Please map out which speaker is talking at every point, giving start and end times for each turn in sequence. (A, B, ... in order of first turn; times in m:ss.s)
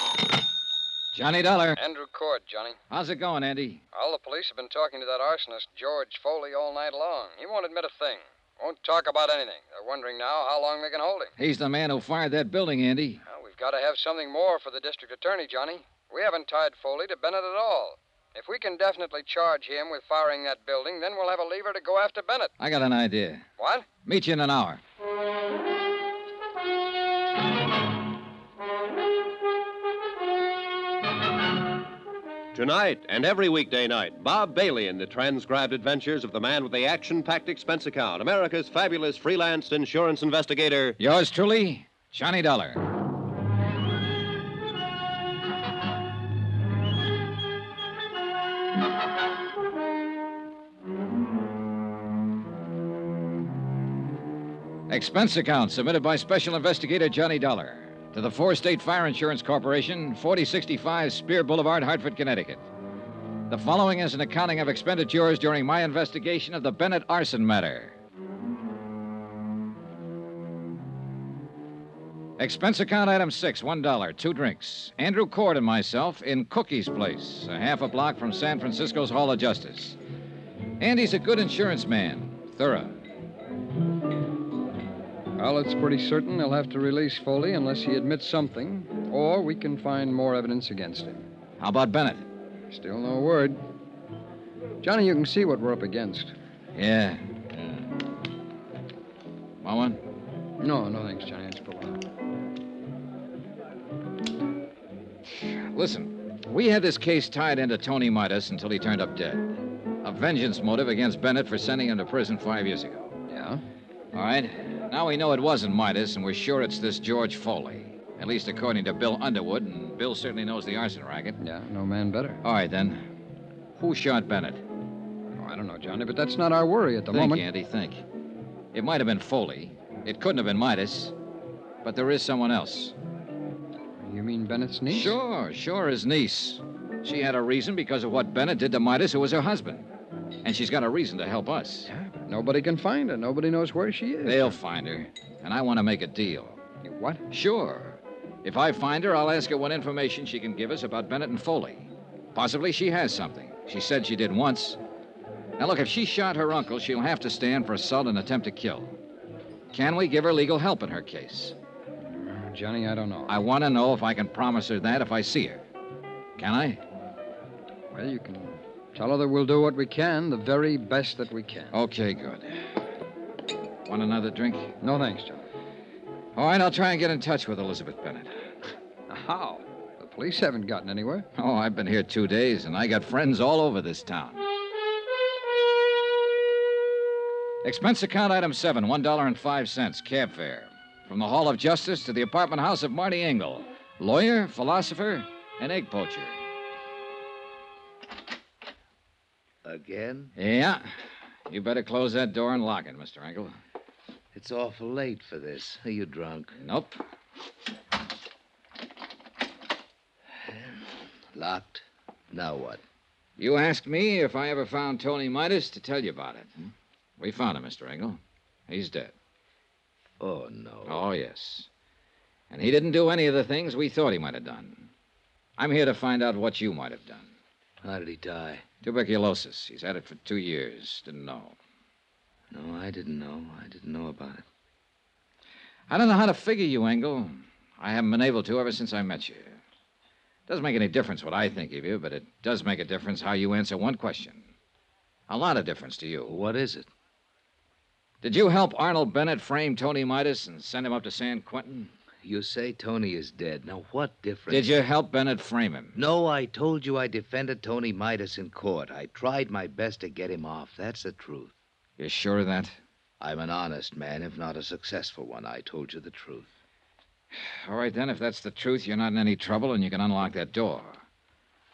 0:01.1-0:01.8 A
0:01.8-0:02.8 B
0:02.9-0:03.8 A
0:03.9-0:11.3 B
0:11.4-0:13.2 A
0:13.3-0:22.5 B
0:22.6-0:23.5 A
0:23.6-0:23.9 B
0:24.0-0:24.8 A
0:32.5-0:41.0 C
0:41.0-0:42.8 A
0:54.9-1:02.6 A
1:03.5-1:08.0 A
1:12.4-1:20.0 A
1:20.8-1:23.0 A
1:25.4-1:31.2 B
1:31.6-1:32.3 A
1:32.7-1:33.6 B
1:34.8-1:36.3 B
1:36.7-1:37.2 A
1:39.6-1:40.0 A
1:40.6-1:42.0 B
1:45.3-1:53.2 A
1:53.3-1:53.6 B
1:54.1-2:01.4 A
2:01.4-2:02.4 B
2:02.4-2:03.0 A
2:03.8-2:04.6 A
2:05.4-2:07.4 B
2:07.1-2:08.0 A
2:08.7-2:11.1 A
2:11.8-2:13.0 A
2:14.0-2:15.2 B
2:14.9-2:19.9 A
2:20.4-2:21.9 A
2:21.8-2:24.6 B
2:24.2-2:26.6 A
2:26.8-2:27.2 B
2:27.3-2:34.8 A
2:35.6-2:39.0 A
2:39.7-2:41.6 A
2:42.0-2:43.4 B
2:43.3-2:45.6 A
2:46.4-2:46.8 A
2:47.9-2:51.7 B
2:51.7-2:52.5 A
2:53.8-2:54.8 A
2:54.8-2:55.5 B
2:56.4-2:58.3 A
2:59.1-3:01.2 B
3:01.3-3:04.4 A
3:07.6-3:16.4 A
3:19.6-3:20.3 D
3:20.4-3:20.8 A
3:21.5-3:23.5 A
3:24.3-3:26.6 D
3:26.6-3:27.0 A
3:30.4-3:32.8 D
3:33.4-3:36.5 A
3:37.2-3:39.1 A
3:40.2-3:41.0 D
3:40.8-3:41.7 A
3:42.5-3:44.9 A
3:45.6-3:47.3 A
3:47.8-3:48.6 D
3:48.8-3:51.6 A
3:52.5-3:54.4 D
3:55.9-3:59.6 A
4:00.5-4:04.5 A
4:05.3-4:06.4 A
4:06.3-4:06.9 D
4:08.2-4:11.9 A
4:12.2-4:14.7 D
4:14.5-4:16.0 A
4:16.0-4:21.5 D
4:22.0-4:22.8 A
4:23.2-4:26.5 D
4:27.4-4:31.0 A